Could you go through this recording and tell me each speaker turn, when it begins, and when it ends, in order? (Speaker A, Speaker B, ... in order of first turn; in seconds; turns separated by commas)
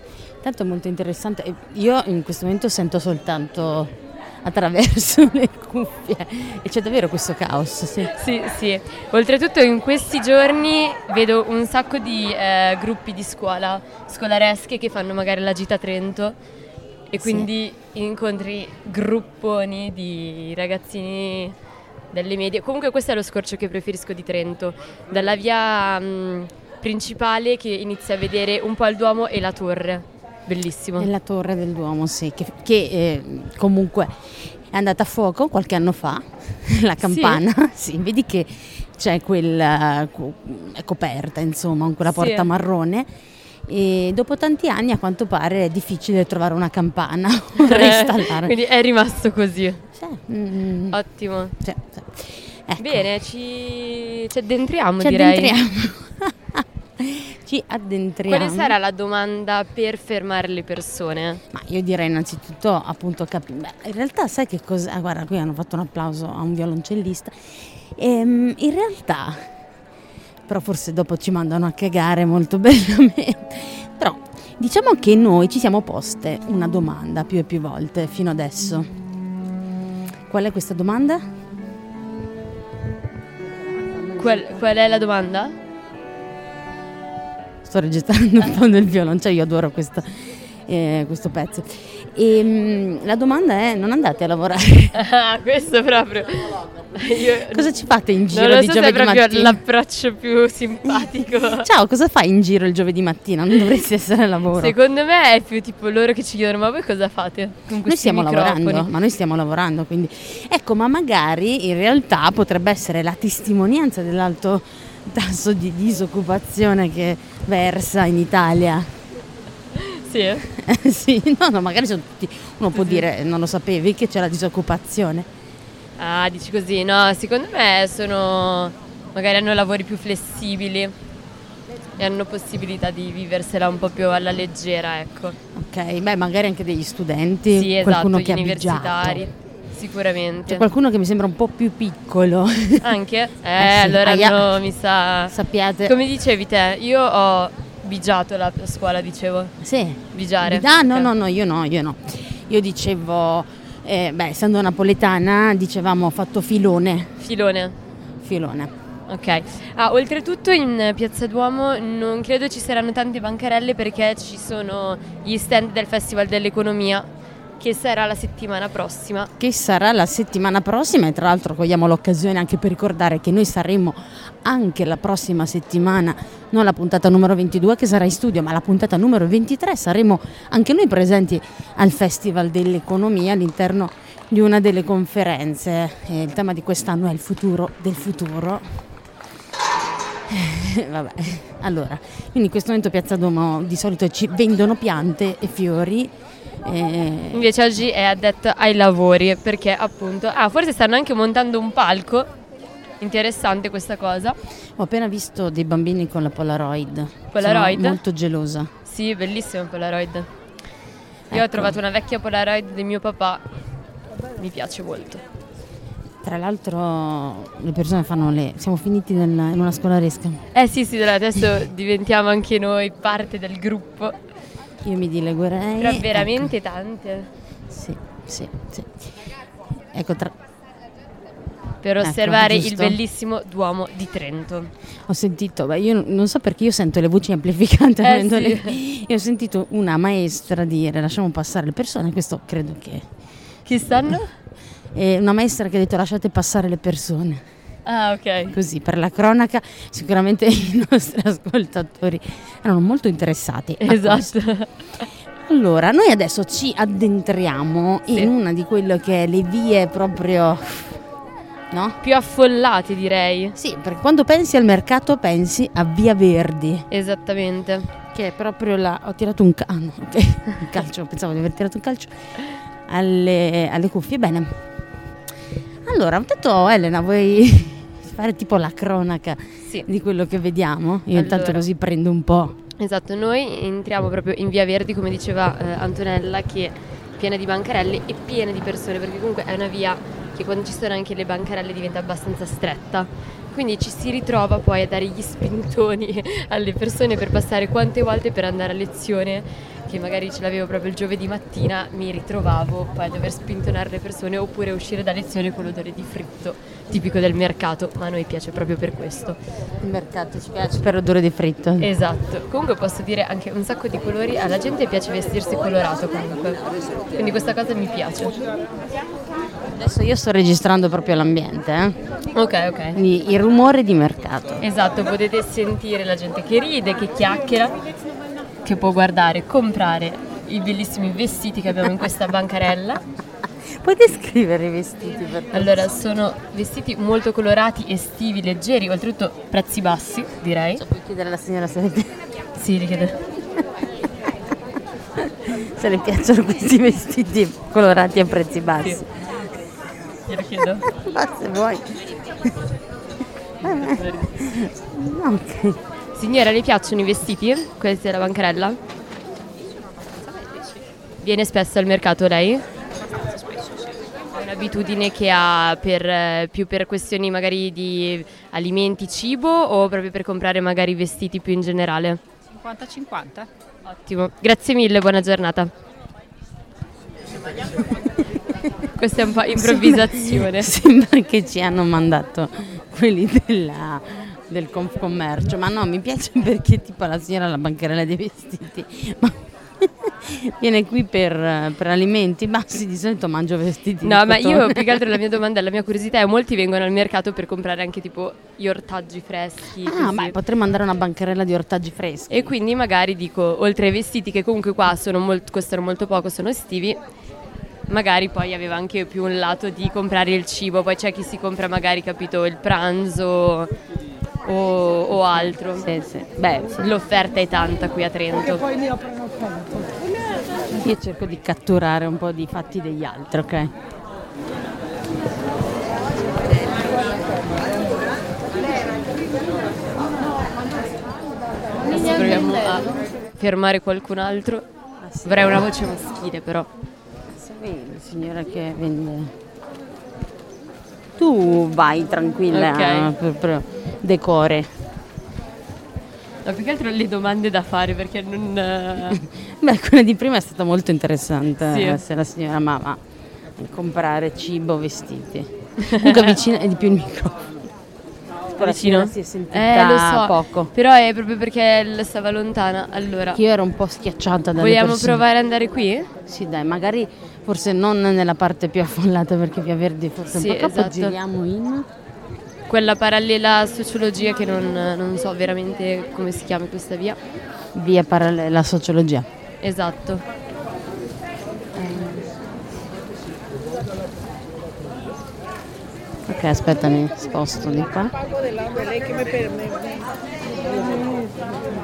Speaker A: 0.4-8.1, Speaker B: 8.1-16.4, Speaker B: 17.1-21.5, Speaker A: 17.2-17.5, Speaker B: 22.1-31.1, Speaker A: 31.0-43.1, Speaker B: 37.0-37.4, Speaker B: 42.0-42.5, Speaker A: 43.6-48.5, Speaker B: 47.6-49.9, Speaker A: 49.9-51.0, Speaker B: 50.9-51.5, Speaker A: 51.6-53.1, Speaker B: 52.8-55.5, Speaker A: 55.0-58.8, Speaker B: 58.3-61.4, Speaker A: 61.5-69.4, Speaker A: 70.5-78.9, Speaker A: 80.3-81.2, Speaker A: 83.4-84.6, Speaker B: 84.2-85.5, Speaker A: 87.6-95.0, Speaker B: 94.9-101.7, Speaker A: 97.5-99.6, Speaker A: 101.6-104.8, Speaker B: 104.5-108.9, Speaker A: 107.8-118.9, Speaker B: 119.7-120.5, Speaker A: 120.5-125.3, Speaker B: 122.7-123.1, Speaker B: 126.0-130.9, Speaker B: 132.0-135.4, Speaker A: 135.5-139.2, Speaker B: 137.5-140.7, Speaker A: 140.5-143.0, Speaker B: 142.8-145.3, Speaker A: 143.6-144.5, Speaker A: 145.3-145.9, Speaker B: 145.8-149.5, Speaker A: 149.6-157.2, Speaker B: 150.1-151.1, Speaker B: 157.2-157.7, Speaker A: 158.2-158.7, Speaker B: 159.1-167.1, Speaker B: 167.6-169.3, Speaker A: 169.4-188.7, Speaker A: 190.3-196.1, Speaker A: 196.6-197.5, Speaker B: 197.3-202.3, Speaker B: 203.0-204.4, Speaker A: 204.8-208.7, Speaker B: 207.3-208.0, Speaker B: 208.8-210.3, Speaker A: 211.3-211.8, Speaker B: 211.3-213.4, Speaker B: 214.3-215.2, Speaker A: 216.2-220.4, Speaker B: 220.5-224.2, Speaker A: 224.8-226.5, Speaker B: 225.8-227.3, Speaker A: 227.7-229.1, Speaker A: 229.9-230.3, Speaker B: 231.8-234.7, Speaker A: 232.0-233.0, Speaker A: 235.1-243.1, Speaker B: 238.0-238.8, Speaker B: 243.7-244.3, Speaker A: 244.9-247.4, Speaker B: 247.8-248.5, Speaker A: 248.5-254.3, Speaker B: 253.8-254.7, Speaker A: 255.4-261.0, Speaker A: 261.7-262.0, Speaker B: 262.0-263.5, Speaker A: 263.5-266.9, Speaker B: 266.9-267.9, Speaker A: 268.1-272.1, Speaker A: 272.9-274.6, Speaker A: 275.8-282.6, Speaker B: 281.1-281.6, Speaker B: 282.8-309.4, Speaker A: 309.8-311.9, Speaker B: 311.8-316.6, Speaker B: 317.1-318.4, Speaker A: 319.7-321.9, Speaker B: 322.3-323.0, Speaker A: 322.9-324.6, Speaker B: 324.6-327.8, Speaker B: 328.6-333.0, Speaker A: 333.6-335.9, Speaker B: 335.5-340.8, Speaker A: 340.8-342.2, Speaker B: 342.6-343.2, Speaker A: 345.2-349.3, Speaker B: 350.3-350.8, Speaker A: 350.9-352.6, Speaker A: 353.6-355.8, Speaker B: 353.6-354.3, Speaker B: 356.1-358.8, Speaker B: 361.2-362.6, Speaker B: 364.3-372.2, Speaker A: 372.6-373.4, Speaker B: 373.9-375.7, Speaker A: 377.8-378.1, Speaker B: 378.9-380.7, Speaker A: 379.5-395.2, Speaker B: 394.0-400.4, Speaker A: 399.8-402.4, Speaker B: 402.3-407.0, Speaker B: 407.9-413.7, Speaker B: 414.4-415.9, Speaker A: 415.7-416.9, Speaker B: 416.8-418.6, Speaker A: 420.7-423.7, Speaker B: 431.9-434.6, Speaker A: 435.0-435.6, Speaker B: 435.2-436.7, Speaker A: 437.3-439.3, Speaker A: 441.2-444.7, Speaker B: 442.5-443.1, Speaker B: 446.4-449.2, Speaker A: 449.2-453.0, Speaker B: 451.7-452.0, Speaker A: 453.6-457.6, Speaker B: 455.8-456.3, Speaker A: 458.5-460.7, Speaker B: 458.6-463.4, Speaker A: 463.3-465.2, Speaker B: 464.6-466.1, Speaker A: 466.2-471.9, Speaker B: 470.3-471.1, Speaker B: 472.7-477.2, Speaker A: 477.7-479.3, Speaker B: 479.6-480.2, Speaker A: 481.8-482.2, Speaker A: 486.3-488.1